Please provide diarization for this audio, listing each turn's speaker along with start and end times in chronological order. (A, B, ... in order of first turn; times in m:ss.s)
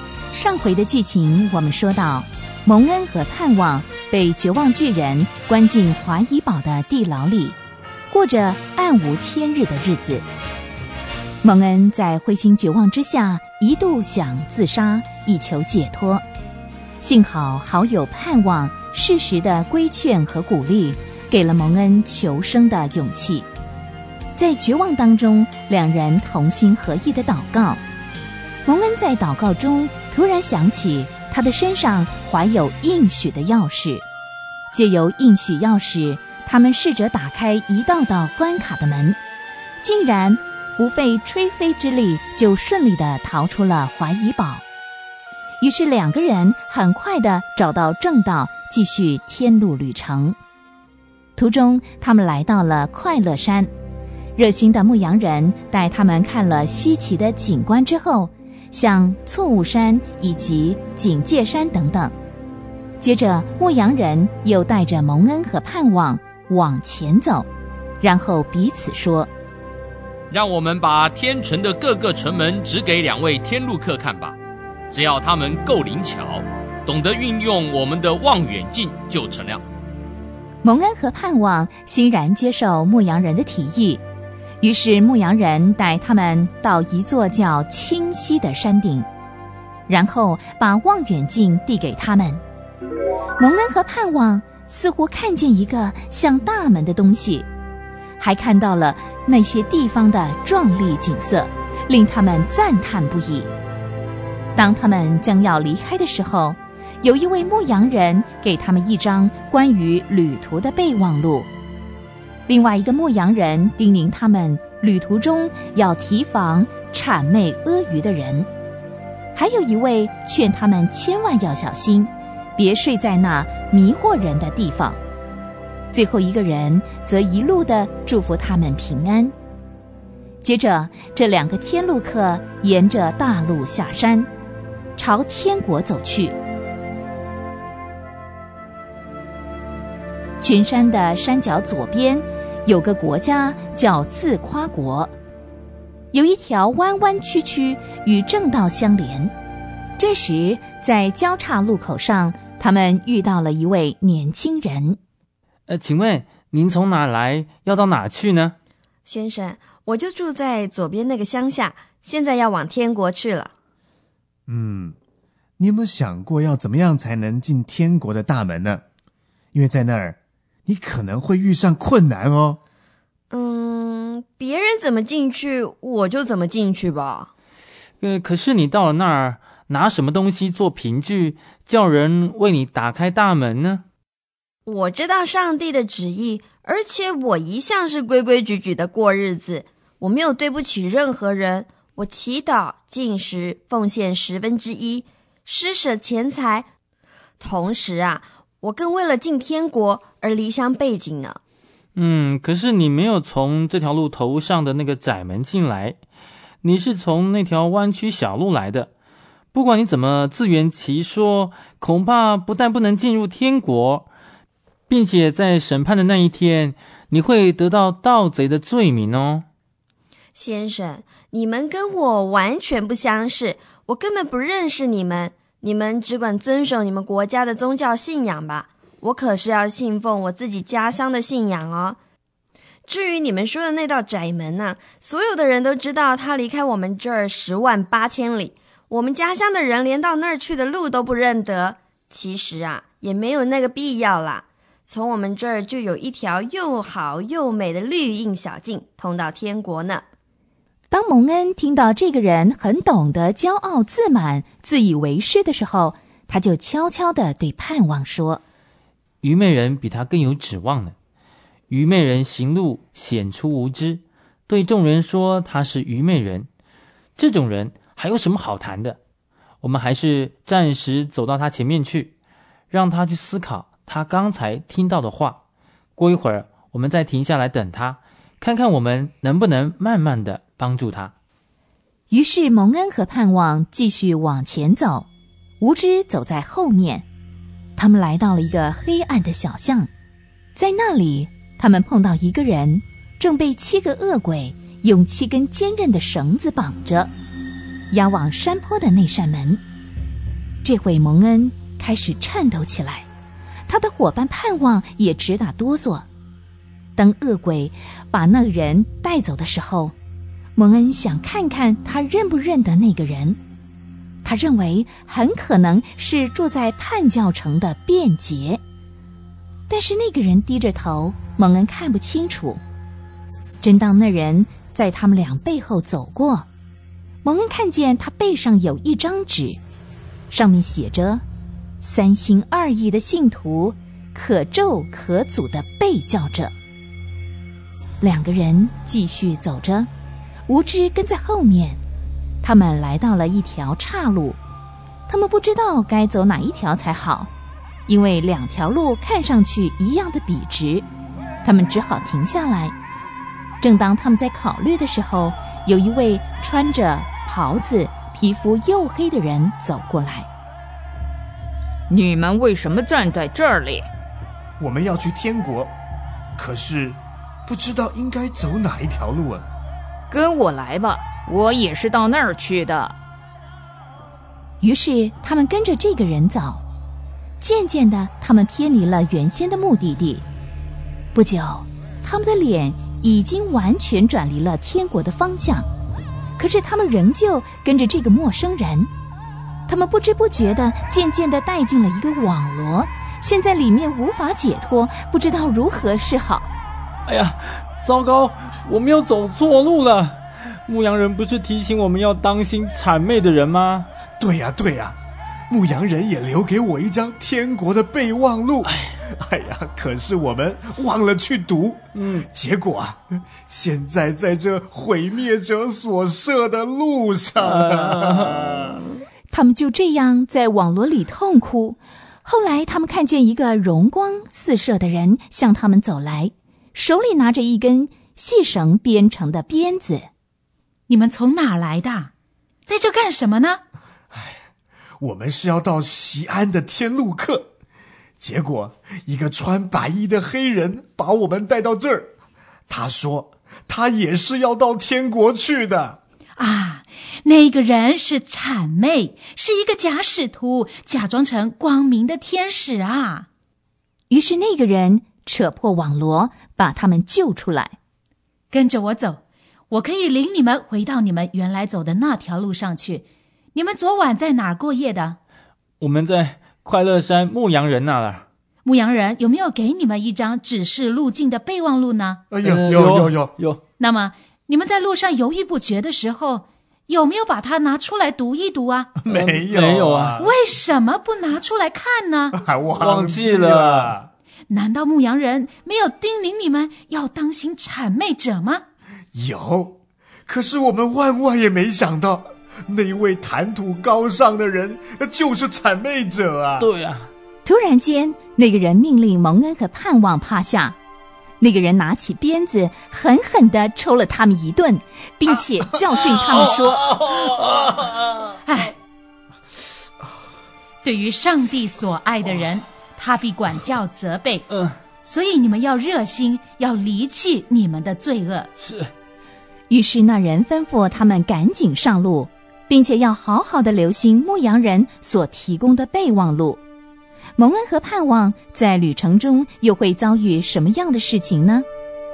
0:00.3-0:07.6 A
0:08.1-0:10.3 A
0:11.4-0:16.2 A
0:17.0-0:23.5 A
0:24.4-0:27.8 A
0:28.7-0:34.0 A
0:34.7-0:39.2 A
0:39.8-0:44.6 A
0:45.6-0:50.4 A
0:51.4-0:53.7 A
0:54.4-1:02.1 A
1:03.0-1:07.5 A
1:08.0-1:09.3 A
1:10.3-1:14.4 B
1:14.9-1:19.6 B
1:20.6-1:24.0 A
1:24.6-1:29.1 A
1:29.9-1:32.4 A
1:33.4-1:37.5 A
1:38.2-1:43.5 A
1:44.6-1:51.5 A
1:52.5-1:58.5 A
1:59.4-2:05.0 A
2:05.9-2:09.3 A
2:10.4-2:14.3 A
2:15.0-2:16.4 A
2:20.4-2:25.1 A
2:26.1-2:29.3 A
2:30.0-2:35.0 A
2:35.7-2:38.6 C
2:39.1-2:43.5 D
2:44.5-2:45.0 E
2:45.6-2:48.8 E
2:49.5-2:52.6 E
2:53.3-2:57.3 D
2:58.0-3:03.8 C
3:04.7-3:16.7 D
3:17.4-3:21.4 D
3:22.0-3:26.0 C
3:26.6-3:28.9 C
3:29.5-3:34.1 C
3:34.9-3:39.5 C
3:40.4-3:52.0 D
3:52.9-4:10.0 D
4:10.9-4:18.4 A
4:19.2-4:21.0 C
4:21.7-4:26.5 C
4:27.2-4:29.0 C
4:29.6-4:32.1 C
4:32.7-4:35.4 C
4:36.0-4:41.1 C
4:42.1-4:45.1 A
4:45.6-4:47.1 A
4:47.8-4:49.9 A
4:50.6-4:57.1 A
4:57.9-4:59.6 A
5:00.6-5:03.1 A
5:03.7-5:06.1 A
5:07.0-5:09.9 A
5:10.6-5:13.4 A
5:14.2-5:18.6 A
5:19.7-5:22.6 A
5:23.6-5:26.5 A
5:27.2-5:29.6 A
5:30.3-5:31.2 A
5:31.8-5:36.5 A
5:38.0-5:39.9 A
5:40.5-5:41.8 A
5:42.4-5:44.4 A
5:45.1-5:47.3 A
5:47.9-5:50.8 A
5:51.4-5:52.7 A
5:53.6-6:00.3 A
6:01.9-6:03.9 F
6:04.6-6:05.7 E
6:06.4-6:09.5 E
6:10.1-6:13.0 F
6:14.6-6:16.6 A
6:17.4-6:20.2 A
6:21.1-6:25.7 A
6:26.4-6:28.9 A
6:29.7-6:36.5 A
6:37.1-6:43.9 C
6:44.2-6:45.0 E
6:45.5-6:58.7 E
6:48.7-6:48.9 C
6:51.9-6:52.3 C
6:57.4-6:58.8 C
6:59.3-7:10.1 A
7:10.9-7:12.1 G
7:12.7-7:13.6 G
7:14.1-7:14.4 E
7:15.0-7:17.5 E
7:18.2-7:22.1 E
7:22.7-7:26.0 E
7:26.4-7:33.3 G
7:34.1-7:37.8 A
7:38.5-7:45.2 G
7:45.8-7:48.3 C
7:48.6-7:52.2 G
7:52.3-7:53.4 E
7:52.4-7:53.6 C
7:53.8-7:58.9 G
7:59.0-8:00.3 E
7:59.1-8:00.2 C
8:00.2-8:02.4 G
8:02.3-8:04.1 E
8:02.8-8:04.0 C
8:04.5-8:08.6 G
8:09.1-8:16.7 E
8:16.6-8:17.1 C
8:17.4-8:20.8 A
8:21.4-8:27.2 A
8:28.4-8:28.8 G
8:30.8-8:34.5 G
8:34.5-8:34.8 C
8:35.0-8:38.5 G
8:38.6-8:38.9 C
8:39.7-8:46.6 A
8:47.4-8:51.7 A